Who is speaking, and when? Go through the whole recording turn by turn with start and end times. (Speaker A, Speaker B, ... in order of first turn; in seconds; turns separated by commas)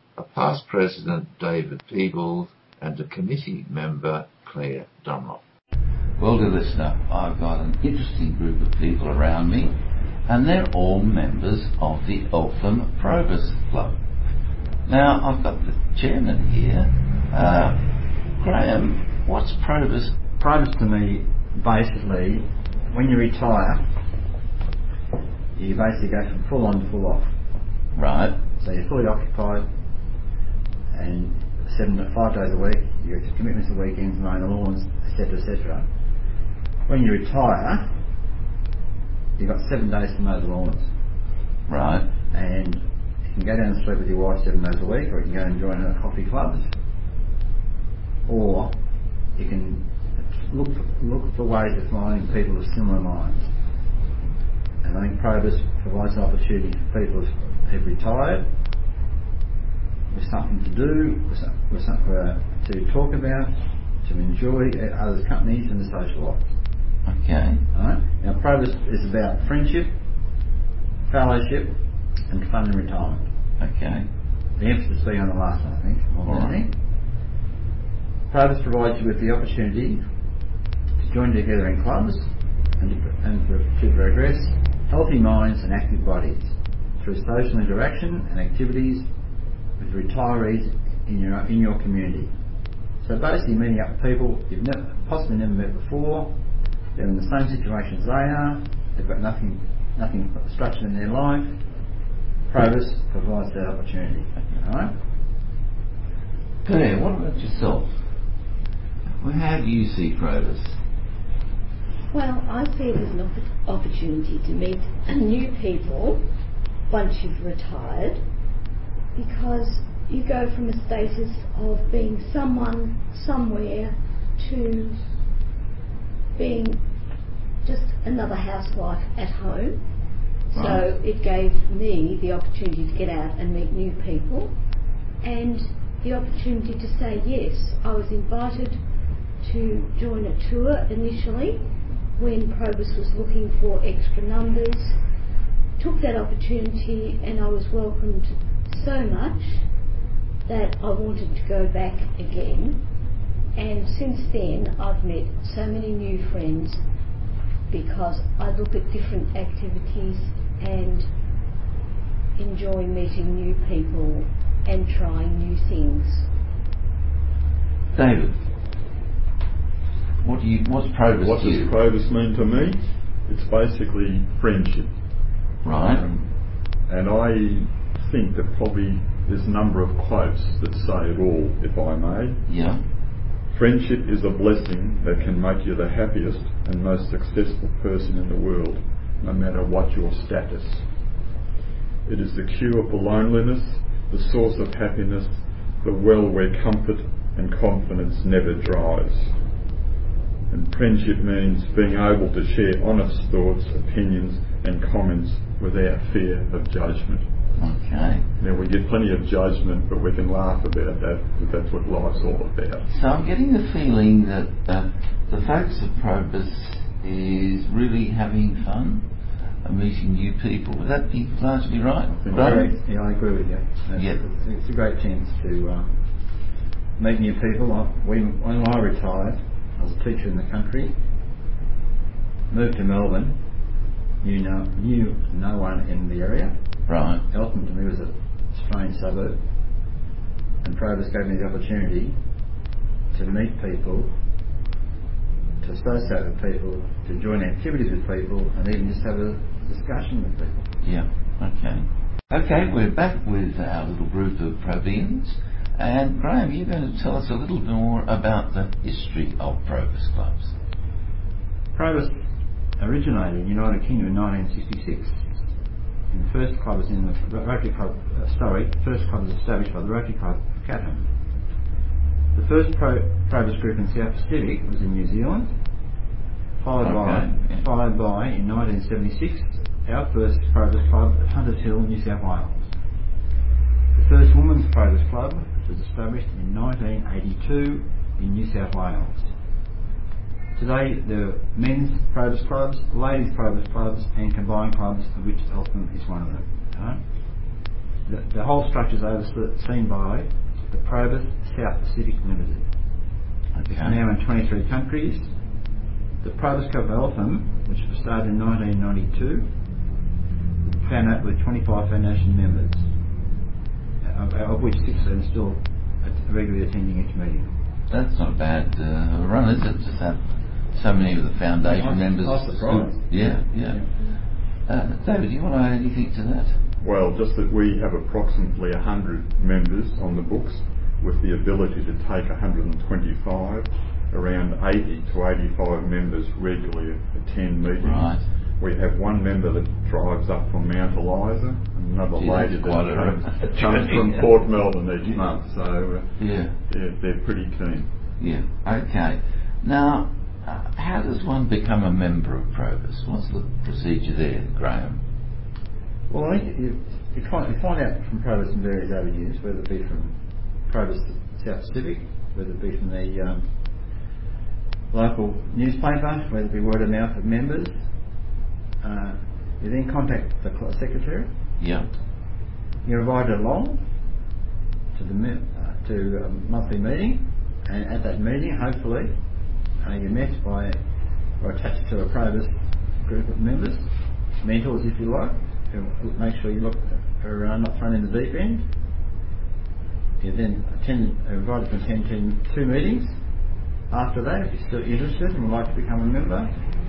Speaker A: 0.1-5.4, Speaker B: 6.2-14.0, Speaker B: 14.8-20.1, Speaker C: 20.4-23.9, Speaker C: 25.5-27.3, Speaker B: 27.9-28.4, Speaker C: 28.6-29.7, Speaker C: 30.9-35.9, Speaker C: 36.9-37.9, Speaker C: 39.4-40.9, Speaker B: 41.7-42.1, Speaker C: 42.3-46.7, Speaker C: 48.2-48.7, Speaker C: 49.4-53.5, Speaker C: 54.8-58.5, Speaker C: 60.1-66.4, Speaker B: 67.1-67.6, Speaker C: 67.7-69.9, Speaker C: 71.1-73.3, Speaker B: 73.6-74.1, Speaker C: 74.6-76.8, Speaker B: 76.2-76.6, Speaker C: 78.3-80.0, Speaker C: 81.0-89.1, Speaker C: 89.8-92.3, Speaker C: 93.0-96.4, Speaker C: 96.9-101.6, Speaker C: 102.5-105.0, Speaker B: 106.6-108.0, Speaker B: 109.2-110.8, Speaker D: 112.1-116.2, Speaker D: 116.9-118.2, Speaker D: 119.1-125.0, Speaker D: 126.3-126.8, Speaker D: 127.6-129.8, Speaker D: 130.5-134.5, Speaker B: 130.5-130.8, Speaker D: 135.2-138.8, Speaker D: 139.4-141.6, Speaker D: 142.2-145.0, Speaker D: 145.8-149.6, Speaker D: 150.4-152.8, Speaker D: 153.5-156.8, Speaker D: 157.7-161.1, Speaker D: 162.3-166.3, Speaker B: 167.9-168.4, Speaker B: 170.2-171.7, Speaker E: 171.2-174.9, Speaker B: 175.6-176.0, Speaker E: 175.7-182.4, Speaker B: 182.5-182.8, Speaker E: 183.5-190.9, Speaker E: 192.0-199.4, Speaker E: 200.5-207.2, Speaker B: 207.6-208.2, Speaker E: 208.4-212.9, Speaker B: 212.9-219.1, Speaker B: 219.6-222.7, Speaker E: 222.2-222.7, Speaker C: 222.3-226.0, Speaker C: 227.0-230.9, Speaker C: 232.5-233.4, Speaker C: 234.2-236.5, Speaker B: 236.9-237.2, Speaker C: 237.3-239.4, Speaker C: 240.6-242.2, Speaker C: 243.1-244.1, Speaker C: 245.6-250.7, Speaker B: 250.8-260.5, Speaker C: 261.7-262.2, Speaker C: 262.8-265.2, Speaker C: 266.1-271.1, Speaker C: 272.3-275.5, Speaker C: 276.6-282.7, Speaker B: 276.8-277.6, Speaker C: 283.9-289.3, Speaker C: 290.6-297.0, Speaker C: 298.1-302.6, Speaker B: 303.5-304.0, Speaker C: 303.7-305.3, Speaker C: 306.2-309.5, Speaker C: 310.8-312.9, Speaker C: 314.0-317.5, Speaker B: 317.9-326.6, Speaker C: 321.6-323.9, Speaker E: 326.8-347.9, Speaker B: 337.8-338.2, Speaker B: 342.1-345.2, Speaker B: 346.2-346.5, Speaker B: 348.2-355.0, Speaker C: 356.1-360.1, Speaker C: 360.7-363.5, Speaker C: 364.9-367.7, Speaker C: 368.8-371.3, Speaker B: 371.6-371.9, Speaker C: 372.8-373.8, Speaker C: 374.9-379.1, Speaker C: 379.8-380.8, Speaker C: 381.4-383.9, Speaker C: 384.4-388.7, Speaker C: 390.2-393.2, Speaker C: 393.9-396.5